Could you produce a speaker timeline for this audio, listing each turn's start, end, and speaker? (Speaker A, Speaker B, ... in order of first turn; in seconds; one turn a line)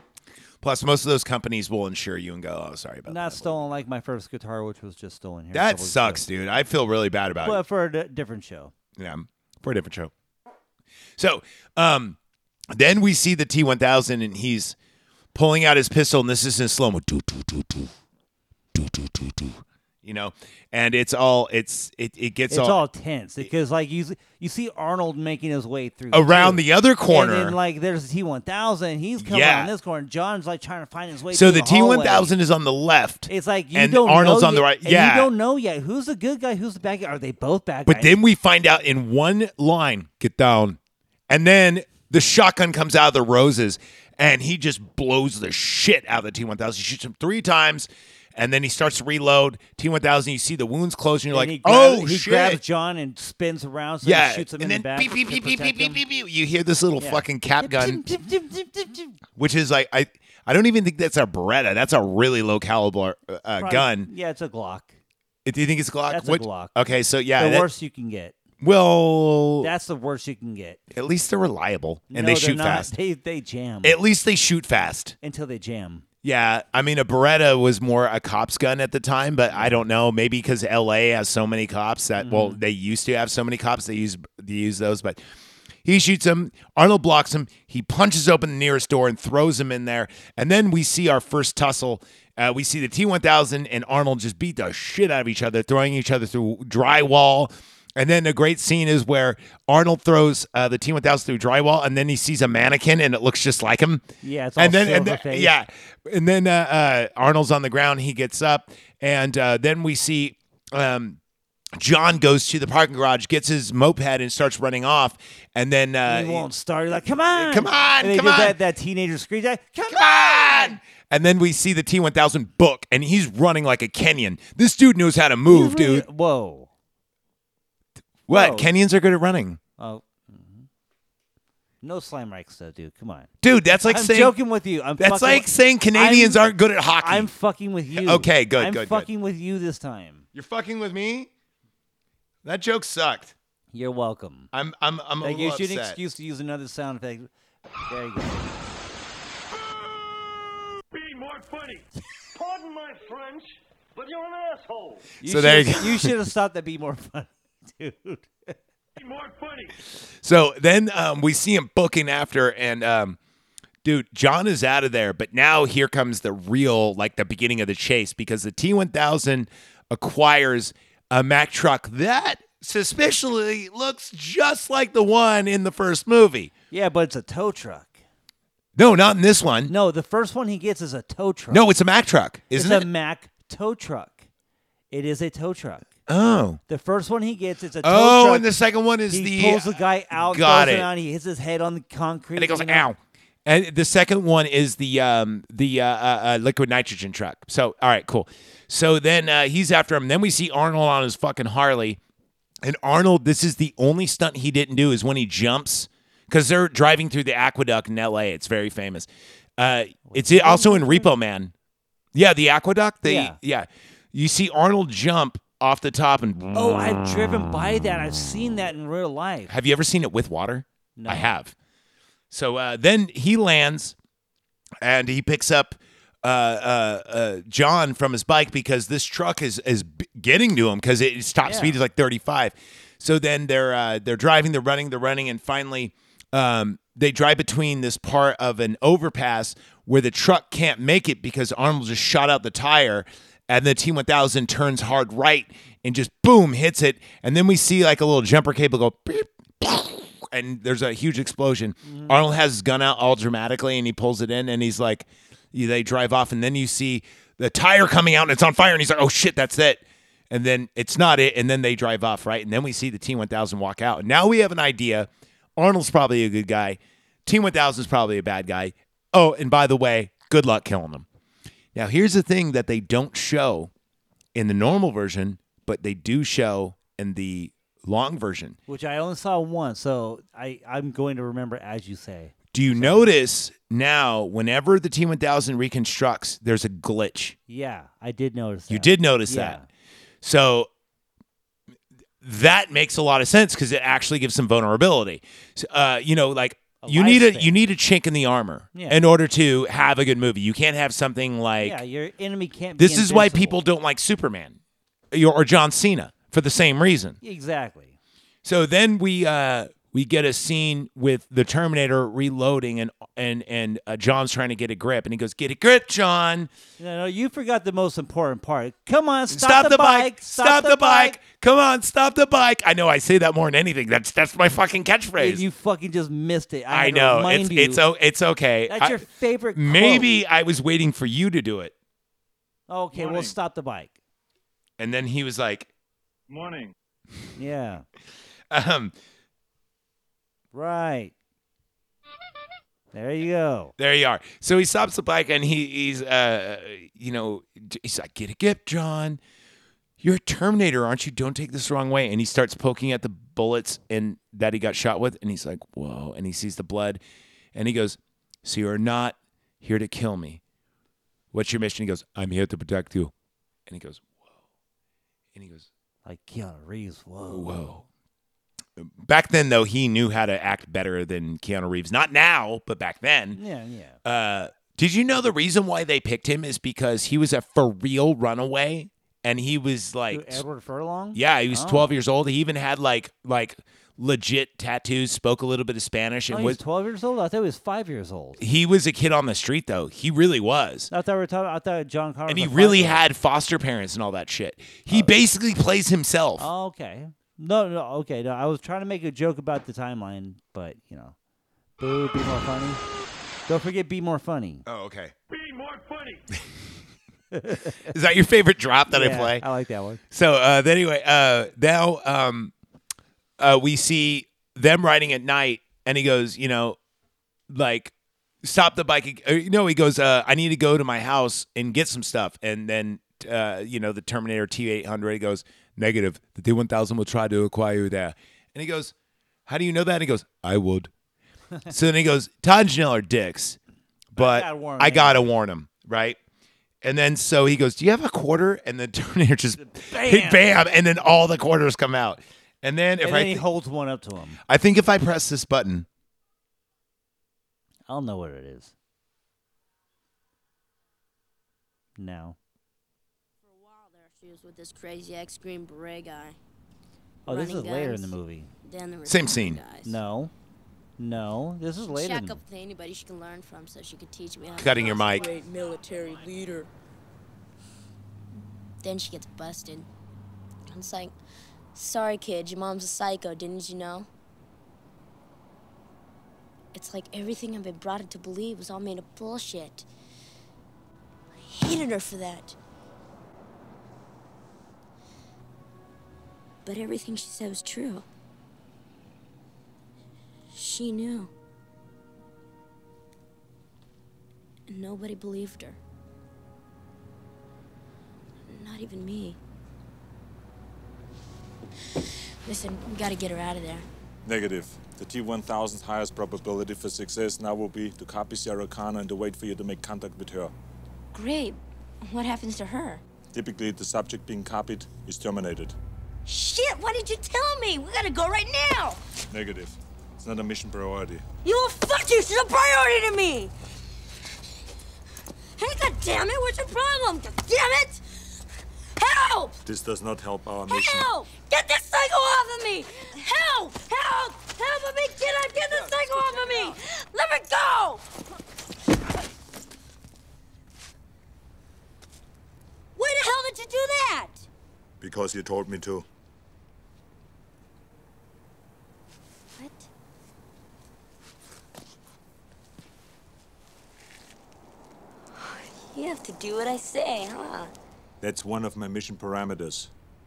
Speaker A: 0.6-3.7
Speaker B: 3.1-6.2
Speaker A: 5.5-7.6
Speaker B: 7.4-8.7
Speaker A: 9.0-10.1
Speaker A: 11.2-12.2
Speaker A: 12.7-14.8
Speaker A: 15.3-17.9
Speaker A: 18.7-22.8
Speaker B: 22.5-32.3
Speaker A: 26.1-27.6
Speaker A: 29.2-29.7
Speaker A: 31.3-35.3
Speaker B: 33.3-38.1
Speaker A: 37.9-40.8
Speaker A: 41.3-52.6
Speaker B: 51.3-56.0
Speaker A: 54.0-58.1
Speaker B: 57.0-59.2
Speaker A: 59.4-64.1
Speaker B: 63.6-64.9
Speaker A: 65.4-67.7
Speaker B: 66.1-66.7
Speaker B: 67.4-68.4
Speaker A: 68.6-69.7
Speaker B: 69.6-70.8
Speaker A: 70.9-72.9
Speaker B: 72.1-74.0
Speaker A: 73.8-75.1
Speaker B: 75.2-76.0
Speaker A: 76.2-85.2
Speaker B: 79.5-79.8
Speaker B: 82.2-82.6
Speaker A: 85.8-104.0
Speaker B: 104.2-105.5
Speaker A: 104.6-111.2
Speaker A: 111.8-116.5
Speaker B: 116.0-120.8
Speaker A: 117.3-118.6
Speaker A: 119.9-126.0
Speaker B: 125.5-126.7
Speaker A: 128.3-129.6
Speaker B: 128.3-128.7
Speaker B: 129.8-130.7
Speaker B: 131.8-136.5
Speaker A: 133.4-134.3
Speaker A: 135.0-137.3
Speaker B: 137.0-140.2
Speaker A: 137.9-139.1
Speaker A: 140.3-141.3
Speaker A: 142.4-143.3
Speaker B: 143.7-144.5
Speaker A: 144.5-146.0
Speaker B: 145.2-147.3
Speaker B: 147.9-148.5
Speaker C: 150.9-155.1
Speaker B: 155.2-158.6
Speaker A: 155.2-156.1
Speaker C: 159.0-159.7
Speaker A: 160.2-163.2
Speaker A: 163.8-176.5
Speaker B: 176.7-178.0
Speaker A: 178.8-179.7
Speaker B: 179.7-181.6
Speaker A: 181.5-182.9
Speaker B: 182.5-184.2
Speaker B: 184.9-185.9
Speaker A: 186.1-186.6
Speaker B: 186.7-188.5
Speaker A: 187.8-190.9
Speaker B: 189.1-192.9
Speaker A: 192.3-202.0
Speaker A: 202.6-211.5
Speaker B: 210.1-211.1
Speaker A: 212.1-216.8
Speaker B: 213.0-213.4
Speaker B: 216.5-219.5
Speaker A: 219.5-221.5
Speaker B: 220.9-221.3
Speaker A: 222.3-223.9
Speaker A: 224.8-271.1
Speaker B: 231.4-231.8
Speaker B: 251.8-252.2
Speaker A: 271.7-273.7
Speaker A: 274.3-278.6
Speaker B: 278.7-283.0
Speaker A: 282.5-287.4
Speaker B: 287.5-289.6
Speaker A: 288.7-289.6
Speaker A: 290.2-290.7
Speaker A: 292.2-301.8
Speaker B: 296.8-297.6
Speaker B: 298.7-299.1
Speaker B: 301.6-303.6
Speaker A: 302.8-304.6
Speaker A: 305.1-307.2
Speaker B: 307.2-307.9
Speaker A: 308.4-316.5
Speaker B: 316.8-321.2
Speaker A: 319.3-325.4
Speaker B: 325.2-327.8
Speaker A: 326.7-331.7
Speaker B: 328.7-330.1
Speaker B: 332.7-333.9
Speaker D: 332.9-333.3
Speaker A: 334.8-335.7
Speaker D: 336.3-336.7
Speaker B: 337.4-337.8
Speaker A: 338.5-338.9
Speaker B: 340.5-341.1
Speaker B: 342.9-343.7
Speaker A: 343.8-349.2
Speaker A: 350.0-357.0
Speaker A: 357.5-360.4
Speaker A: 361.3-363.1
Speaker A: 363.7-364.3
Speaker A: 365.3-365.7
Speaker B: 366.0-367.7
Speaker A: 367.3-367.9
Speaker A: 368.8-373.4
Speaker B: 373.3-374.0
Speaker A: 374.0-380.4
Speaker B: 380.1-381.9
Speaker A: 381.1-386.6
Speaker B: 386.3-388.4
Speaker A: 388.4-390.9
Speaker B: 390.9-393.0
Speaker A: 392.3-396.5
Speaker B: 396.4-401.1
Speaker B: 401.8-402.8
Speaker B: 403.5-404.6
Speaker A: 404.6-405.1
Speaker C: 405.3-406.3
Speaker B: 407.3-407.9
Speaker A: 407.8-409.4
Speaker B: 408.9-410.0
Speaker A: 410.1-412.5
Speaker A: 413.4-416.8
Speaker A: 417.5-428.9
Speaker A: 429.4-430.9
Speaker A: 431.7-433.6
Speaker A: 434.1-436.2
Speaker B: 434.1-435.3
Speaker A: 436.8-443.4
Speaker B: 439.6-440.6
Speaker B: 443.0-444.4
Speaker A: 444.4-445.9
Speaker B: 447.9-448.7
Speaker B: 452.0-452.4
Speaker E: 453.4-456.4
Speaker B: 457.2-458.5
Speaker E: 457.3-459.9
Speaker A: 459.0-459.6
Speaker B: 459.8-460.3
Speaker B: 461.0-462.4
Speaker E: 461.9-466.7
Speaker A: 464.5-465.3
Speaker E: 468.8-469.9
Speaker E: 470.7-471.1
Speaker E: 471.7-474.1
Speaker E: 476.7-479.9
Speaker E: 481.5-482.6
Speaker E: 486.6-488.1
Speaker E: 490.5-491.3
Speaker E: 494.7-495.8
Speaker E: 498.5-499.4
Speaker E: 502.4-503.9
Speaker D: 504.2-510.5
Speaker E: 511.1-513.0
Speaker D: 513.3-515.8
Speaker E: 516.2-519.0
Speaker D: 519.3-521.2
Speaker E: 521.4-523.5
Speaker E: 525.6-528.4
Speaker E: 529.0-529.6
Speaker D: 529.6-531.1
Speaker E: 530.7-538.0
Speaker E: 543.0-544.5
Speaker D: 545.0-546.0
Speaker E: 549.6-549.9
Speaker E: 555.4-557.7
Speaker D: 558.2-559.9